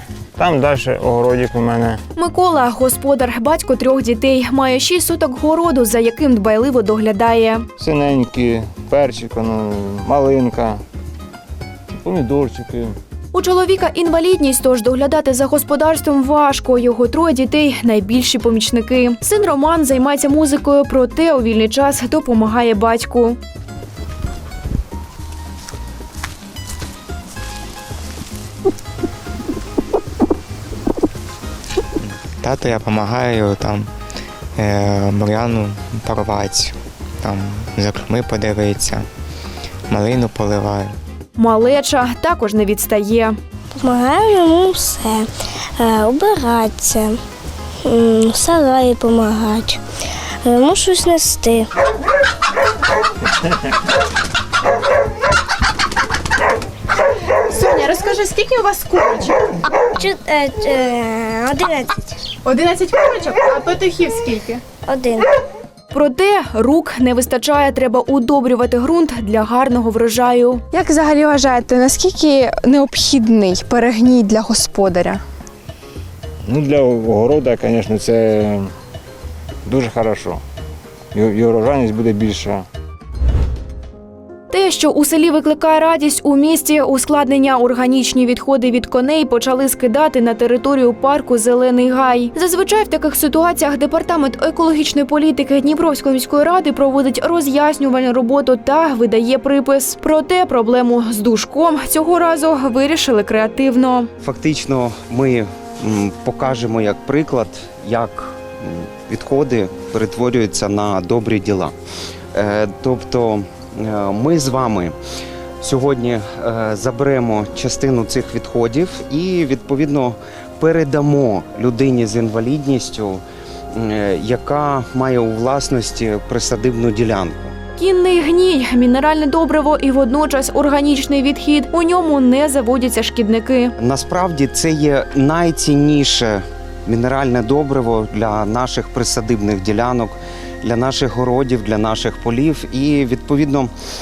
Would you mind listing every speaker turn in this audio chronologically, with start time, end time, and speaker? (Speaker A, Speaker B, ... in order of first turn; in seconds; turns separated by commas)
Speaker A: 0.4-2.0, Speaker B: 2.2-7.7, Speaker A: 7.8-10.8, Speaker A: 11.9-13.0, Speaker B: 13.3-23.4, Speaker C: 32.4-33.9, Speaker C: 34.6-39.0, Speaker C: 39.9-41.0, Speaker B: 41.4-43.4, Speaker D: 43.8-47.2, Speaker D: 47.9-49.8, Speaker D: 50.4-51.7, Speaker E: 57.5-59.1, Speaker F: 57.6-59.3, Speaker D: 59.9-62.0, Speaker E: 62.5-64.3, Speaker F: 62.5-64.6, Speaker D: 64.8-65.3, Speaker B: 65.9-70.7, Speaker E: 70.8-75.2, Speaker A: 76.5-78.7, Speaker A: 79.7-80.4, Speaker A: 81.1-82.7, Speaker B: 84.5-104.1, Speaker G: 104.2-111.8, Speaker G: 112.3-115.0, Speaker G: 115.6-127.5, Speaker B: 127.8-133.8, Speaker G: 133.8-143.7